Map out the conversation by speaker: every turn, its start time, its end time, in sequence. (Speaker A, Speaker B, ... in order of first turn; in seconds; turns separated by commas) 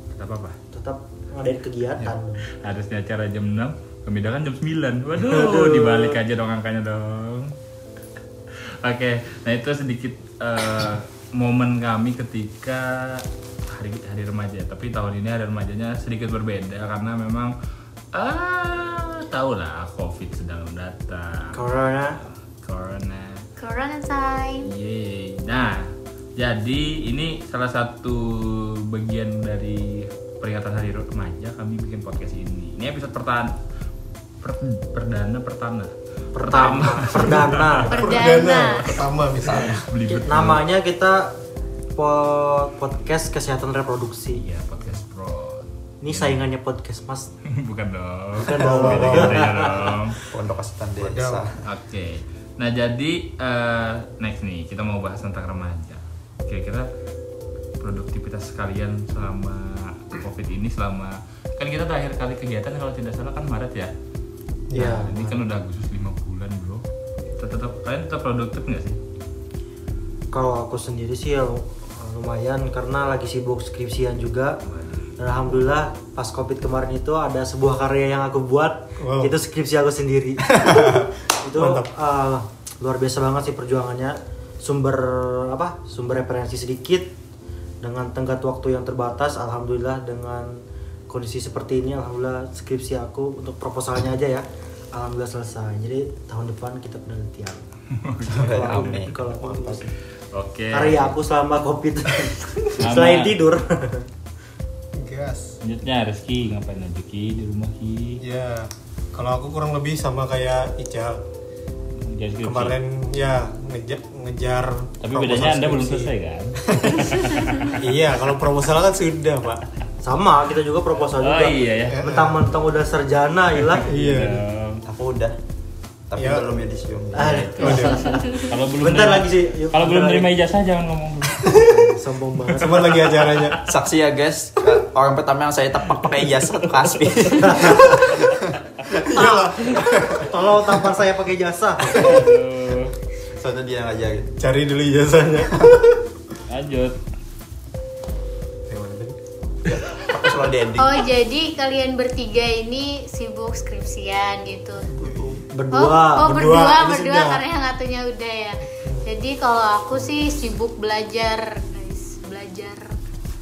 Speaker A: 0.1-0.6, Speaker B: 0.7-2.5, Speaker A: 2.0-7.5, Speaker B: 5.3-6.2, Speaker A: 8.8-17.5, Speaker A: 18.1-21.6, Speaker B: 21.5-22.2, Speaker A: 22.2-23.4, Speaker C: 23.6-24.7, Speaker A: 24.7-33.5, Speaker A: 34.4-37.9, Speaker B: 36.3-37.9, Speaker D: 37.8-39.8, Speaker C: 37.9-38.9, Speaker E: 39.5-39.8, Speaker A: 39.5-40.6, Speaker B: 40.2-41.3, Speaker B: 42.0-44.4, Speaker A: 44.3-46.4, Speaker B: 46.0-47.3, Speaker A: 47.5-50.2, Speaker B: 48.4-49.9, Speaker D: 48.5-49.5, Speaker E: 50.2-51.6, Speaker D: 51.0-51.4, Speaker A: 51.6-56.9, Speaker A: 57.8-63.9, Speaker D: 64.7-65.1, Speaker B: 64.7-65.5, Speaker A: 64.7-66.8, Speaker A: 67.3-69.0, Speaker B: 70.3-74.6, Speaker A: 74.7-75.2, Speaker B: 75.2-87.1, Speaker D: 79.0-79.3, Speaker D: 81.6-81.9, Speaker B: 87.8-97.6, Speaker A: 97.9-99.7, Speaker E: 98.3-99.1, Speaker B: 98.4-99.9, Speaker A: 100.3-101.1, Speaker B: 100.7-104.1, Speaker A: 102.7-103.3, Speaker D: 105.0-105.6, Speaker A: 105.6-108.2, Speaker D: 108.2-111.2, Speaker A: 112.0-112.8, Speaker D: 112.4-116.1, Speaker A: 115.0-117.8, Speaker D: 116.7-117.1, Speaker D: 117.8-119.6, Speaker B: 120.0-123.9, Speaker A: 121.2-122.0, Speaker D: 121.9-122.4, Speaker A: 123.6-124.8, Speaker D: 123.8-124.4, Speaker E: 124.8-125.4, Speaker E: 126.1-127.7, Speaker D: 126.2-126.5, Speaker B: 127.1-130.3, Speaker A: 127.2-131.5, Speaker D: 127.6-128.0, Speaker C: 128.0-128.4, Speaker B: 131.4-133.1, Speaker D: 132.6-133.6, Speaker A: 133.3-133.6, Speaker E: 133.6-139.3, Speaker A: 137.3-138.0, Speaker B: 137.5-137.9, Speaker D: 139.1-140.3, Speaker E: 139.8-140.2, Speaker B: 140.1-142.0, Speaker A: 141.8-142.9, Speaker E: 141.9-142.3, Speaker E: 143.3-144.3, Speaker D: 144.4-146.0, Speaker A: 146.5-147.0, Speaker D: 148.7-149.1, Speaker E: 149.7-151.1, Speaker C: 150.8-154.9, Speaker E: 154.9-155.4, Speaker D: 155.0-155.4, Speaker B: 155.5-156.3, Speaker C: 155.7-162.9, Speaker D: 156.2-157.4